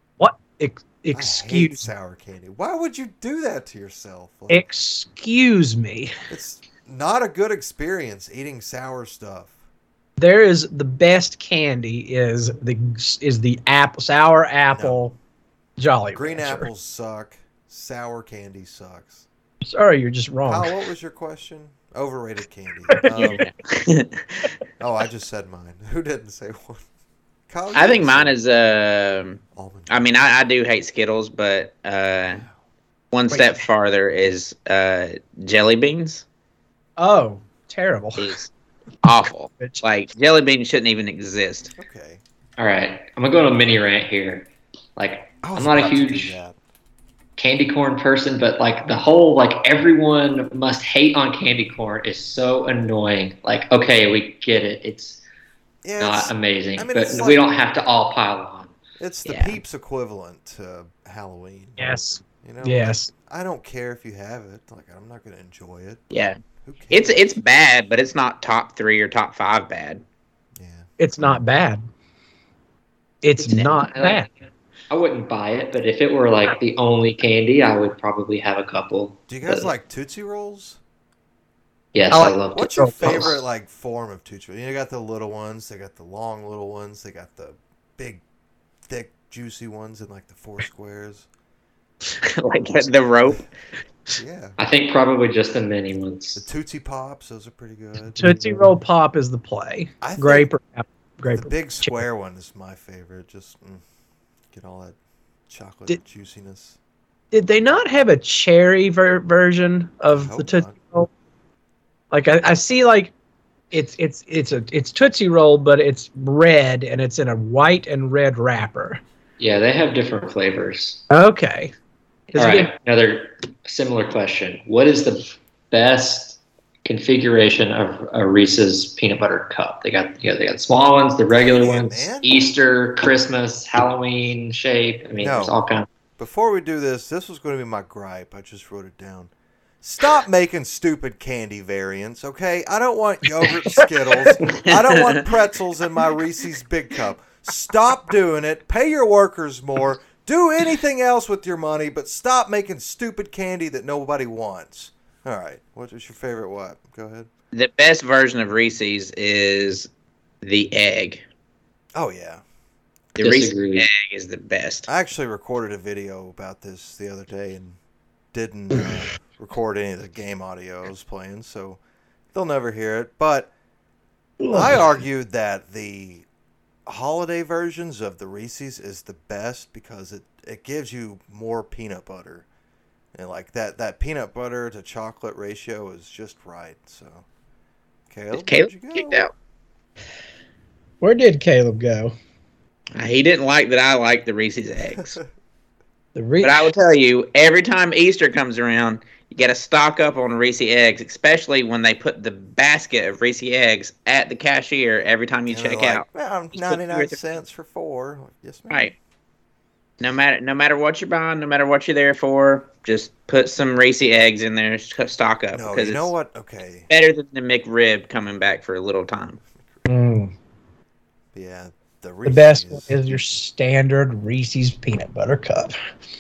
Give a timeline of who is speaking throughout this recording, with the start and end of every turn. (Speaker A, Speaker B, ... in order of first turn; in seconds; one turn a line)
Speaker A: 0.2-1.9
Speaker B: 1.1-4.7
Speaker A: 4.5-6.1
Speaker B: 6.3-9.6
Speaker A: 10.2-15.2
Speaker B: 14.7-15.0
Speaker A: 15.8-16.7
Speaker B: 16.1-19.3
Speaker A: 19.6-20.7
Speaker B: 20.5-23.5
Speaker A: 22.9-23.4
Speaker C: 23.1-24.5
Speaker B: 24.8-26.8
Speaker B: 27.5-28.4
Speaker C: 27.7-32.4
Speaker B: 29.6-30.3
Speaker C: 33.1-36.2
Speaker A: 37.0-38.3
Speaker C: 38.2-38.5
Speaker C: 39.0-41.7
Speaker B: 41.8-42.2
Speaker D: 42.6-46.4
Speaker B: 45.4-46.6
Speaker D: 47.4-55.2
Speaker B: 55.8-57.5
Speaker D: 56.0-58.7
Speaker B: 59.0-66.0
Speaker C: 59.3-59.6
Speaker A: 61.8-63.1
Speaker C: 66.1-66.4
Speaker B: 66.6-67.2
Speaker C: 66.9-70.0
Speaker B: 70.6-71.4
Speaker A: 71.0-71.8
Speaker A: 73.2-74.3
Speaker D: 73.4-74.2
Speaker D: 74.9-79.7
Speaker B: 79.3-80.8
Speaker D: 81.9-83.4
Speaker A: 82.1-83.3
Speaker B: 82.5-88.2
Speaker B: 88.9-91.3
Speaker C: 92.2-93.5
Speaker B: 94.2-94.6
Speaker D: 94.6-96.5
Speaker B: 96.4-98.7
Speaker A: 98.2-102.0
Speaker B: 100.0-100.5
Speaker B: 101.2-103.8
Speaker B: 104.5-105.0
Speaker B: 105.5-106.8
Speaker A: 107.3-111.1
Speaker B: 110.1-110.8
Speaker A: 112.1-113.1
Speaker A: 113.7-119.0
Speaker D: 119.4-121.0
Speaker A: 121.1-121.7
Speaker A: 122.3-122.7
Speaker D: 122.3-135.9
Speaker B: 131.3-132.5
Speaker B: 135.2-135.6
Speaker B: 136.2-157.3
Speaker C: 144.7-145.2
Speaker C: 157.5-159.9
Speaker C: 160.4-161.2
Speaker B: 161.9-162.4
Speaker C: 163.2-164.9
Speaker D: 163.2-163.9
Speaker B: 164.9-167.8
Speaker B: 168.3-171.8
Speaker B: 172.3-173.5
Speaker A: 174.4-174.8
Speaker B: 174.5-176.3
Speaker B: 176.9-182.5
Speaker B: 183.2-187.3
Speaker B: 188.1-189.3
Speaker C: 188.3-189.3
Speaker A: 191.0-192.1
Speaker C: 192.9-195.2
Speaker B: 194.9-195.2
Speaker A: 196.2-196.7
Speaker C: 196.4-207.2
Speaker B: 205.5-208.9
Speaker C: 210.0-216.1
Speaker B: 215.5-216.9
Speaker C: 216.9-219.4
Speaker A: 219.9-220.3
Speaker B: 221.3-223.4
Speaker A: 222.3-225.8